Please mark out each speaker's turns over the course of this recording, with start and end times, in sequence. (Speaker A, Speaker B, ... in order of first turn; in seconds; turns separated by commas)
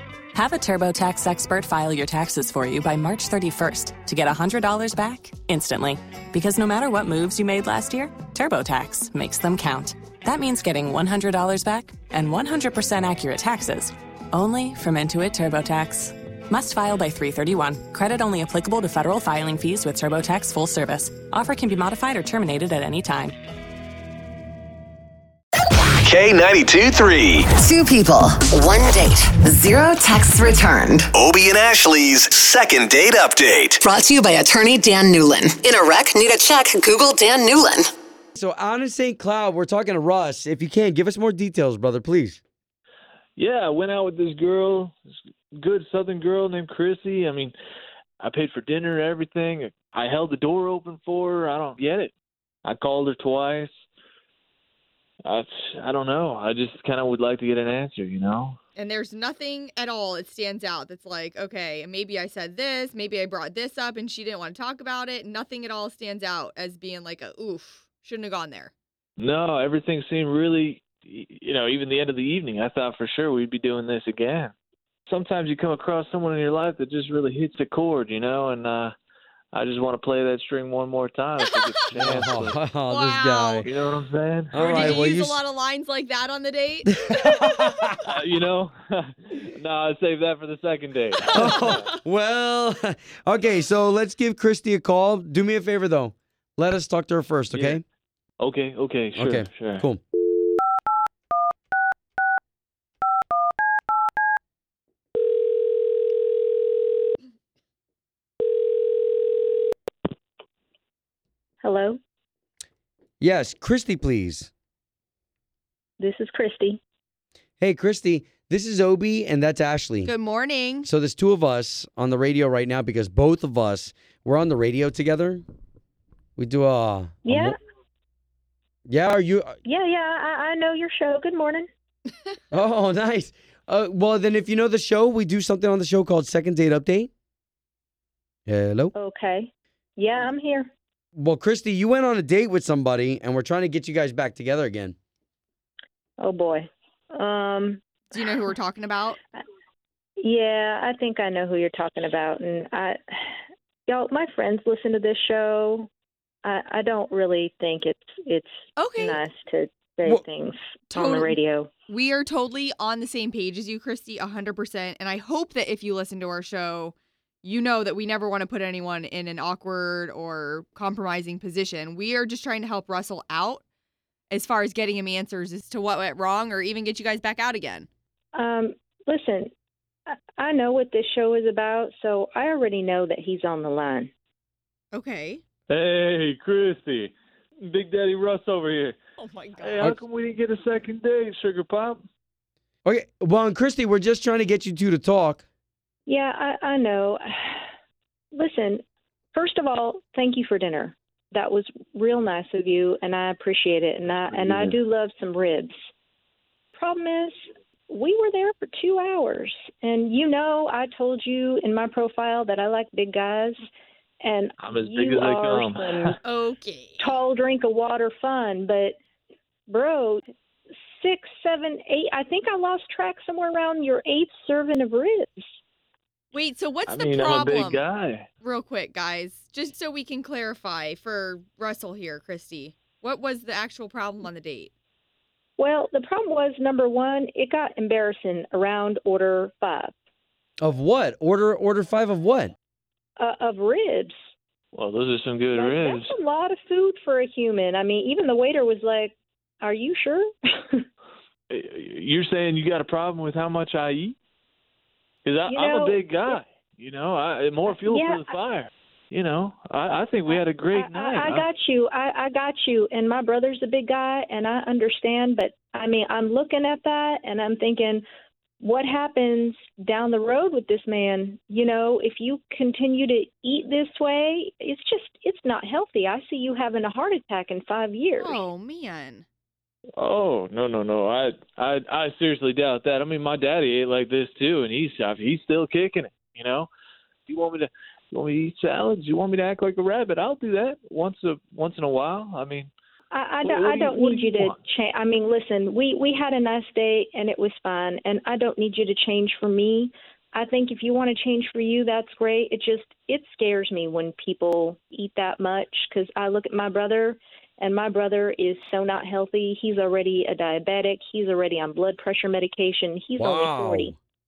Speaker A: 0.3-23.3, Speaker B: 26.0-27.5, Speaker C: 27.5-31.1, Speaker B: 31.1-33.8, Speaker C: 33.8-37.9, Speaker D: 38.3-42.4, Speaker E: 43.4-45.0, Speaker E: 45.5-47.5, Speaker E: 48.2-52.1, Speaker E: 52.6-53.7, Speaker E: 55.2-58.6, Speaker F: 58.8-68.7, Speaker E: 69.2-74.5, Speaker E: 75.1-78.9, Speaker E: 79.5-82.7, Speaker D: 81.9-83.7, Speaker F: 82.8-83.6, Speaker E: 83.6-85.1, Speaker D: 84.5-85.4, Speaker F: 84.6-87.9, Speaker D: 87.1-87.9, Speaker E: 88.0-91.9, Speaker F: 91.3-91.8, Speaker D: 91.3-97.8, Speaker E: 97.5-97.8, Speaker E: 98.4-99.8, Speaker D: 99.1-100.0, Speaker G: 111.6-112.0, Speaker D: 113.2-114.5, Speaker G: 116.0-116.8, Speaker D: 117.6-120.1, Speaker F: 120.0-120.9, Speaker D: 120.8-125.4, Speaker D: 126.4-127.5, Speaker G: 127.2-127.5, Speaker D: 128.9-129.6, Speaker G: 129.6-131.7, Speaker D: 132.5-137.1, Speaker D: 138.5-138.9, Speaker G: 138.9-140.7, Speaker D: 141.2-144.9, Speaker G: 146.2-147.8, Speaker F: 148.1-149.2, Speaker G: 150.2-155.9, Speaker G: 156.4-161.7, Speaker F: 158.8-159.2, Speaker F: 160.9-161.4, Speaker F: 161.9-173.6, Speaker F: 174.3-177.9, Speaker G: 178.3-179.5, Speaker G: 180.1-184.1, Speaker F: 184.9-185.4, Speaker E: 185.7-187.1, Speaker E: 187.7-188.9, Speaker F: 189.2-189.9, Speaker E: 189.6-192.0, Speaker D: 192.8-195.4, Speaker G: 196.1-197.6, Speaker G: 198.3-205.7, Speaker G: 206.7-207.3, Speaker G: 207.9-213.7, Speaker G: 214.2-216.2, Speaker E: 214.6-216.2, Speaker F: 216.2-217.1, Speaker G: 217.0-218.9, Speaker G: 219.7-220.2, Speaker G: 221.0-225.4, Speaker F: 226.3-227.8, Speaker E: 226.9-228.3, Speaker F: 228.4-234.7, Speaker G: 235.6-239.9, Speaker D: 240.6-242.5, Speaker G: 243.2-244.1, Speaker E: 244.7-246.1, Speaker G: 245.5-250.8, Speaker E: 251.5-254.2, Speaker E: 255.2-261.4, Speaker G: 255.4-256.4, Speaker G: 257.7-258.3, Speaker G: 260.3-268.0, Speaker G: 268.6-278.4, Speaker F: 278.2-279.2, Speaker E: 280.0-286.7, Speaker E: 287.3-292.7, Speaker G: 293.1-313.9, Speaker E: 293.4-294.6, Speaker D: 313.2-313.9